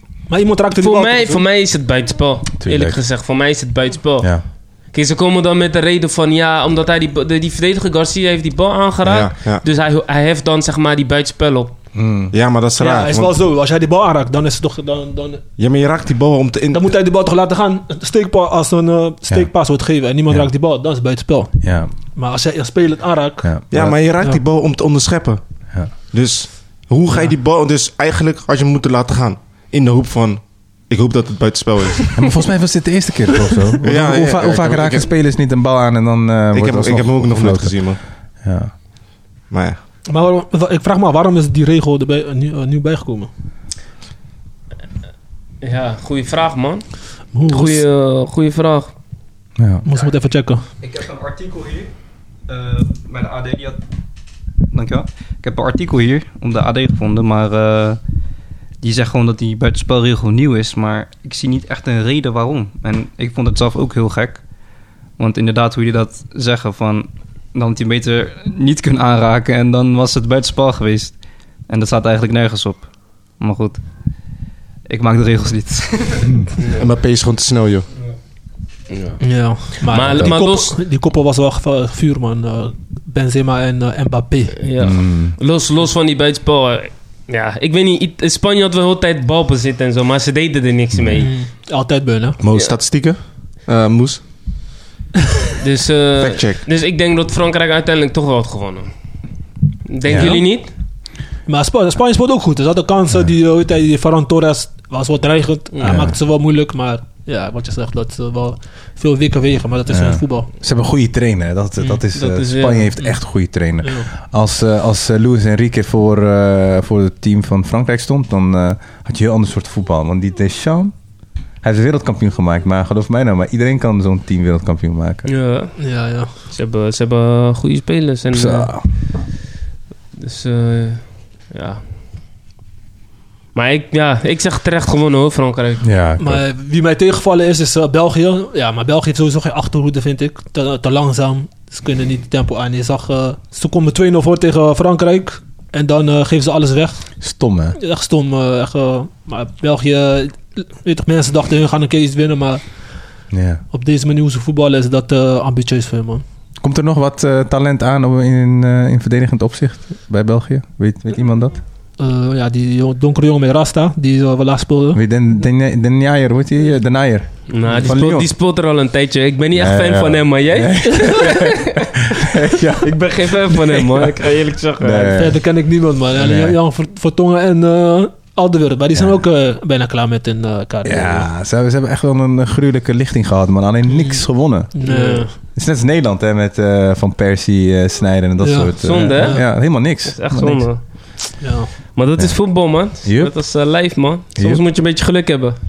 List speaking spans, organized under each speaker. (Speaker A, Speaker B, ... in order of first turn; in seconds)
Speaker A: 0.3-1.4, 12.8-15.4, 16.7-21.6, 22.1-23.5, 40.1-43.3, 47.3-47.8, 49.8-50.6, 79.2-84.6, 91.2-92.4, 101.5-110.5, 113.8-114.1, 125.8-126.3, 136.2-147.2, 147.7-152.6, 153.7-156.2, 162.0-165.0, 175.2-181.3, 183.9-185.3, 188.4-189.4, 191.4-191.7
Speaker B: 0.7-11.7, 45.6-48.9, 76.6-76.8, 78.9-80.7, 84.6-91.3, 95.6-98.9, 99.8-100.7, 105.7-106.0, 112.1-113.1, 125.2-128.8, 130.2-131.8, 133.5-135.9, 167.5-171.8, 172.8-175.2, 184.8-185.3, 188.8-195.6
Speaker C: 2.6-3.0, 11.9-12.3, 21.6-21.9, 23.4-24.0, 32.1-38.7, 49.6-49.8, 84.8-85.3, 100.0-100.4, 105.8-106.2, 109.9-120.9, 121.6-125.3, 128.3-128.8, 135.8-136.4, 147.2-147.8, 153.3-153.6, 156.6-161.6, 164.9-168.3, 169.5-174.1, 174.8-175.4, 176.1-176.6, 180.8-190.7, 192.2-193.4, 194.3-194.6
Speaker D: 9.0-9.6, 12.3-13.3, 15.6-16.9, 23.7-25.4, 26.1-32.1, 33.8-35.1, 36.5-38.0, 39.5-39.8, 76.8-77.9, 92.4-94.2, 96.2-96.6
Speaker E: 50.8-51.9, 52.5-53.8, 54.7-58.0, 58.8-64.4, 65.2-73.8, 74.8-76.5